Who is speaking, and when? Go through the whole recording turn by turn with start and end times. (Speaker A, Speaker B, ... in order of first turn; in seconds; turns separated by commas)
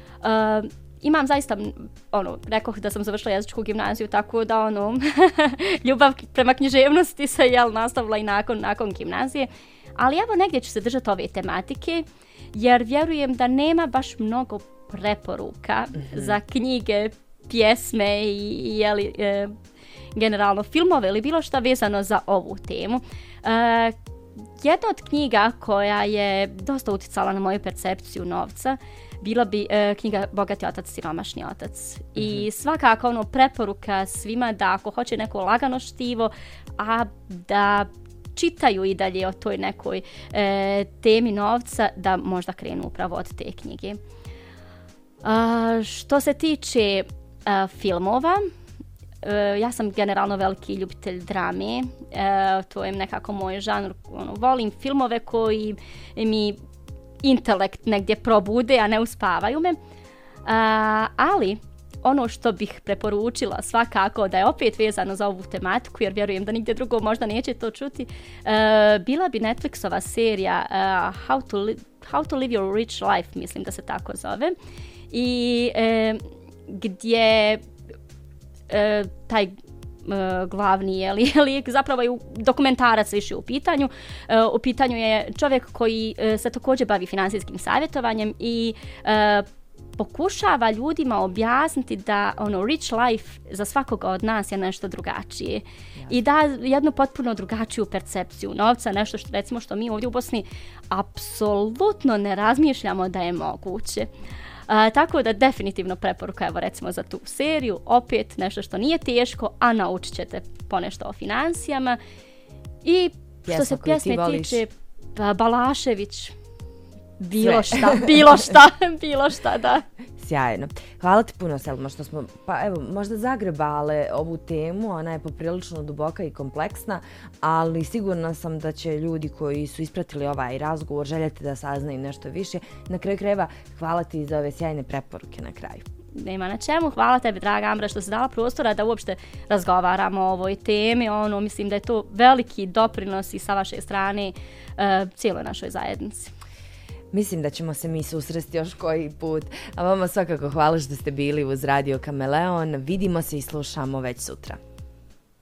Speaker A: 0.2-19.5, Speaker A: 20.1-23.9, Speaker A: 24.6-44.0, Speaker B: 32.2-32.4, Speaker A: 45.2-48.4, Speaker A: 49.2-56.6, Speaker A: 57.2-59.8, Speaker A: 60.4-74.5, Speaker A: 75.1-77.6, Speaker A: 78.7-89.5, Speaker A: 90.0-104.1, Speaker A: 104.7-112.0, Speaker A: 112.8-116.3, Speaker B: 113.4-114.6, Speaker A: 117.2-119.8, Speaker B: 117.4-118.1, Speaker B: 120.2-135.8, Speaker A: 136.1-146.3, Speaker B: 147.1-154.6